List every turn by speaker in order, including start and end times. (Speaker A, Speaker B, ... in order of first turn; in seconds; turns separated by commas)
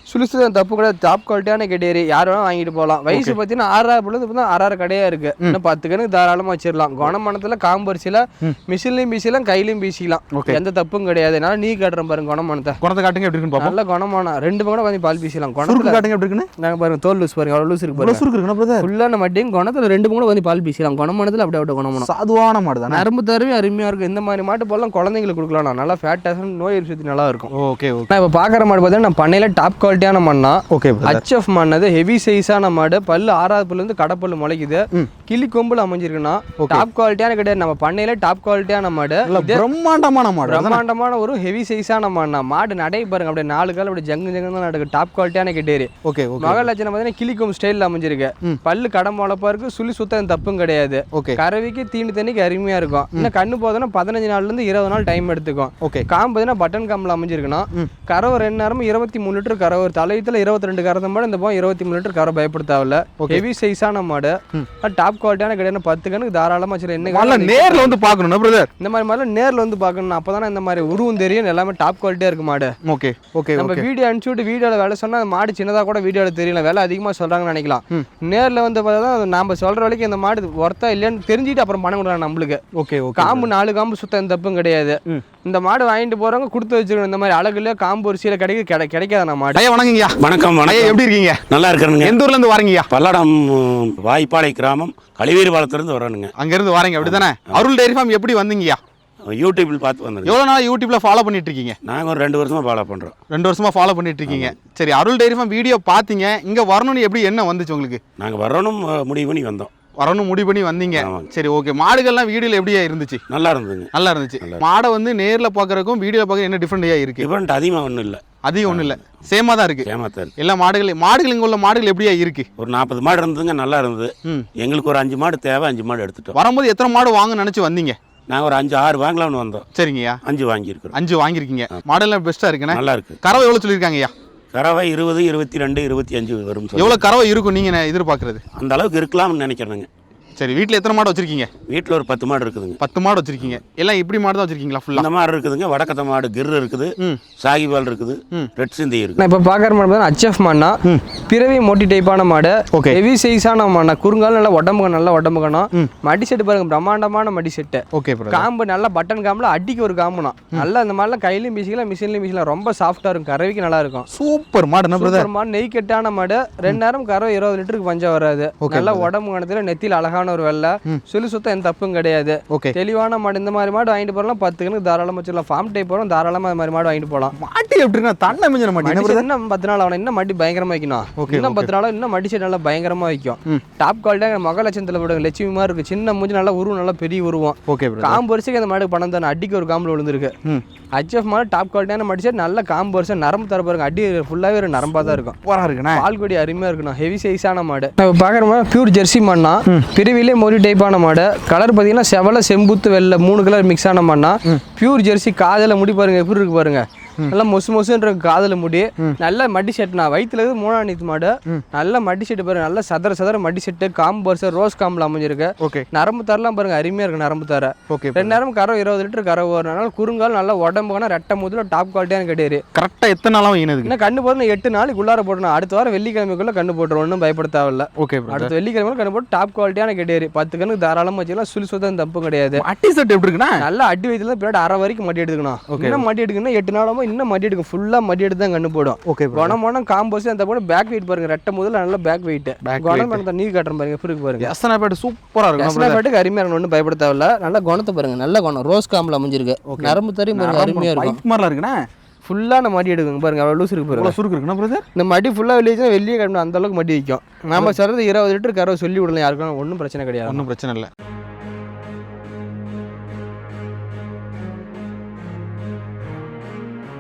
Speaker A: 0.1-12.8, Speaker B: 10.3-10.6, Speaker B: 12.8-13.7, Speaker A: 13.6-16.0, Speaker B: 15.6-16.5, Speaker A: 16.6-18.2, Speaker B: 18.0-18.9, Speaker A: 18.8-22.1, Speaker B: 22.0-23.0, Speaker A: 22.9-27.5, Speaker B: 27.5-28.1, Speaker A: 28.1-39.6, Speaker B: 30.7-31.2, Speaker B: 36.6-36.8, Speaker B: 39.3-40.8, Speaker A: 40.5-68.0, Speaker B: 46.0-46.6, Speaker B: 51.1-51.4, Speaker B: 67.0-68.7, Speaker A: 68.8-72.7, Speaker B: 72.8-73.8, Speaker A: 73.6-82.6, Speaker B: 82.7-83.5, Speaker A: 83.2-89.6, Speaker B: 89.5-91.4, Speaker C: 90.2-90.9, Speaker C: 91.5-92.2, Speaker B: 92.0-92.9, Speaker C: 92.9-96.3, Speaker B: 96.4-98.8, Speaker C: 97.0-97.6, Speaker C: 99.3-100.3, Speaker B: 100.2-101.8, Speaker C: 101.8-103.1, Speaker B: 103.3-108.0, Speaker C: 104.3-104.5, Speaker C: 108.2-109.7, Speaker B: 110.0-113.2, Speaker C: 111.0-111.3, Speaker C: 113.3-113.9, Speaker B: 113.9-117.3, Speaker C: 117.2-118.9, Speaker B: 118.4-119.9, Speaker C: 119.8-120.3, Speaker B: 120.4-122.5, Speaker C: 122.6-126.3, Speaker B: 126.3-128.0, Speaker C: 128.3-129.6, Speaker B: 129.7-130.2, Speaker C: 130.2-130.9, Speaker B: 130.9-134.1, Speaker C: 132.7-133.2, Speaker C: 134.5-137.0, Speaker B: 136.7-138.4, Speaker C: 138.6-139.9, Speaker B: 140.4-141.5, Speaker C: 141.7-142.8, Speaker B: 142.8-145.1, Speaker C: 144.9-149.2, Speaker A: 149.2-164.1, Speaker B: 152.7-153.0, Speaker B: 157.9-158.5, Speaker B: 164.1-165.3, Speaker A: 164.9-177.3, Speaker B: 168.6-169.1, Speaker B: 177.4-179.2, Speaker A: 178.8-190.3, Speaker B: 181.2-181.7, Speaker B: 187.7-188.2, Speaker A: 191.0-195.3, Speaker B: 195.4-196.0, Speaker A: 195.9-222.6, Speaker B: 215.6-215.9, Speaker B: 217.9-218.4, Speaker B: 222.7-223.9, Speaker A: 223.8-232.6, Speaker B: 228.0-228.5, Speaker B: 232.6-233.6, Speaker A: 233.6-244.5, Speaker B: 235.7-236.0, Speaker B: 239.1-239.6, Speaker B: 242.6-243.2, Speaker B: 244.4-246.0, Speaker A: 245.6-251.2, Speaker B: 249.7-251.8, Speaker A: 252.2-254.1, Speaker B: 253.9-254.8, Speaker A: 254.9-260.4, Speaker B: 260.3-260.9